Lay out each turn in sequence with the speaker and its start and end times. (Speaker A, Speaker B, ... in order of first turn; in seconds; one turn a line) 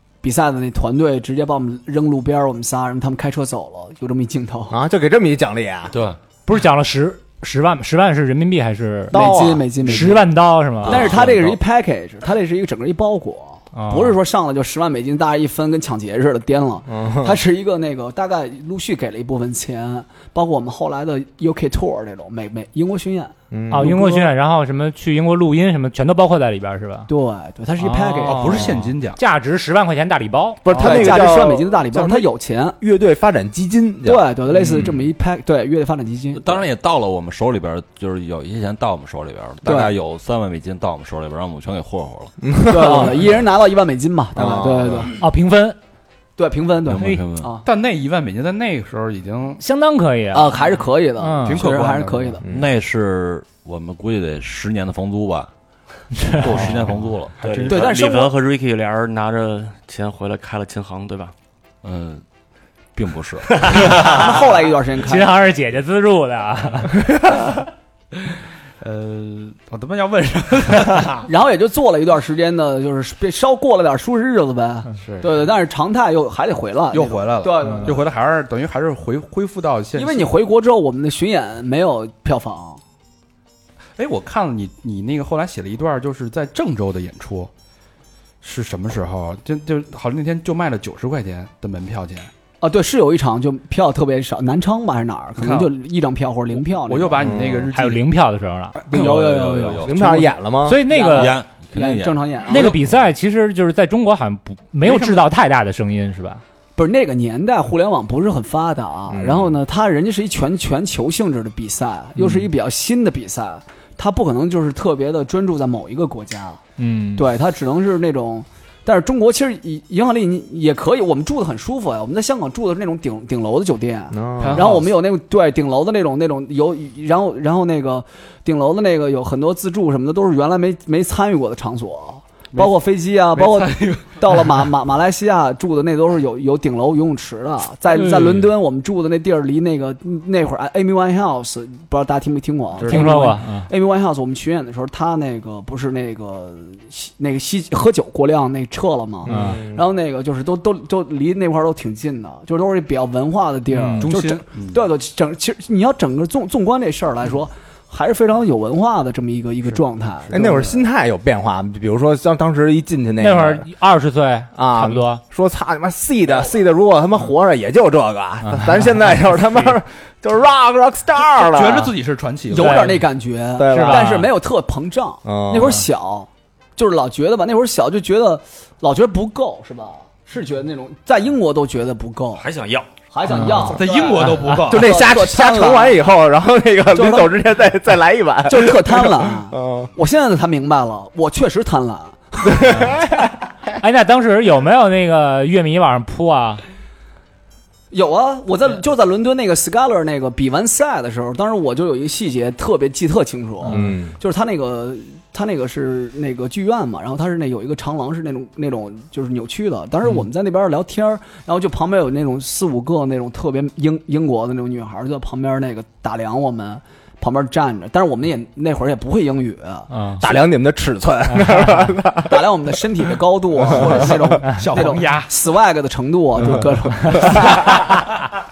Speaker A: 0.2-4.8
Speaker B: 4.7-6.0
Speaker C: 5.9-6.2
Speaker D: 6.5-9.2
Speaker B: 9.1-10.0
Speaker A: 9.1-10.3
Speaker D: 9.8-11.3
Speaker A: 10.8-24.2
Speaker C: 10.8-11.6
Speaker D: 13.7-14.2
Speaker B: 16.9-17.4
Speaker B: 23.5-24.0
Speaker D: 23.7-27.1
Speaker A: 27.1-28.7
Speaker D: 27.8-30.6
Speaker E: 28.2-29.2
Speaker B: 30.6-34.2
Speaker E: 30.7-31.1
Speaker A: 30.7-32.8
Speaker A: 34.0-36.6
Speaker C: 36.3-42.3
Speaker A: 39.6-39.9
Speaker B: 42.4-43.2
Speaker A: 42.7-45.1
Speaker B: 44.4-45.1
Speaker D: 45.1-45.8
Speaker A: 46.4-47.6
Speaker C: 46.9-47.5
Speaker E: 47.6-49.6
Speaker D: 49.6-50.6
Speaker A: 50.3-52.4
Speaker D: 51.2-51.6
Speaker E: 51.4-52.4
Speaker B: 52.4-52.7
Speaker C: 52.5-55.5
Speaker D: 56.1-56.6
Speaker C: 56.4-57.9
Speaker F: 57.4-61.3
Speaker A: 57.7-58.3
Speaker C: 61.8-62.2
Speaker C: 62.9-64.4
Speaker A: 63.7-65.3
Speaker D: 65.0-67.3
Speaker E: 68.8-71.3
Speaker A: 71.2-78.0
Speaker E: 75.0-75.5
Speaker E: 76.9-80.3
Speaker A: 80.0-82.8
Speaker E: 84.0-87.5
Speaker E: 88.4-92.3
Speaker A: 92.6-97.3
Speaker E: 95.4-95.7
Speaker E: 96.6-98.0
Speaker B: 97.2-97.7
Speaker D: 97.7-98.8
Speaker A: 98.8-100.3
Speaker C: 98.8-100.2
Speaker B: 99.8-100.8
Speaker D: 100.6-101.4
Speaker A: 100.9-102.8
Speaker C: 101.0-103.0
Speaker D: 102.5-106.4
Speaker E: 104.8-105.1
Speaker A: 106.8-116.6
Speaker B: 109.1-109.5
Speaker D: 112.2-112.5
Speaker D: 116.8-117.3
Speaker A: 117.2-160.8
Speaker B: 124.1-124.6
Speaker E: 124.4-124.9
Speaker E: 133.3-134.4
Speaker D: 137.9-138.4
Speaker E: 142.8-143.2
Speaker D: 142.8-143.7
Speaker B: 149.2-149.8
Speaker D: 149.3-149.6
Speaker D: 153.8-154.1
Speaker E: 154.0-154.8
Speaker E: 159.7-160.5
Speaker B: 160.3-163.7
Speaker D: 163.2-165.2
Speaker B: 164.5-171.9
Speaker D: 168.4-168.8
Speaker E: 171.3-172.9
Speaker A: 172.5-182.4
Speaker D: 172.6-173.1
Speaker B: 173.6-174.2
Speaker D: 173.6-174.3
Speaker B: 175.2-175.8
Speaker F: 182.4-182.9
Speaker A: 183.1-186.0
Speaker D: 183.3-183.7
Speaker E: 183.7-184.9
Speaker B: 184.5-189.9
Speaker A: 186.9-187.3
Speaker A: 188.4-192.8
Speaker B: 192.5-193.2
Speaker D: 193.8-196.6
Speaker A: 197.9-219.9
Speaker D: 203.7-203.9
Speaker B: 203.7-204.1
Speaker D: 219.9-220.2
Speaker B: 220.2-222.4
Speaker D: 221.3-221.8
Speaker A: 222.2-227.8
Speaker E: 223.6-225.3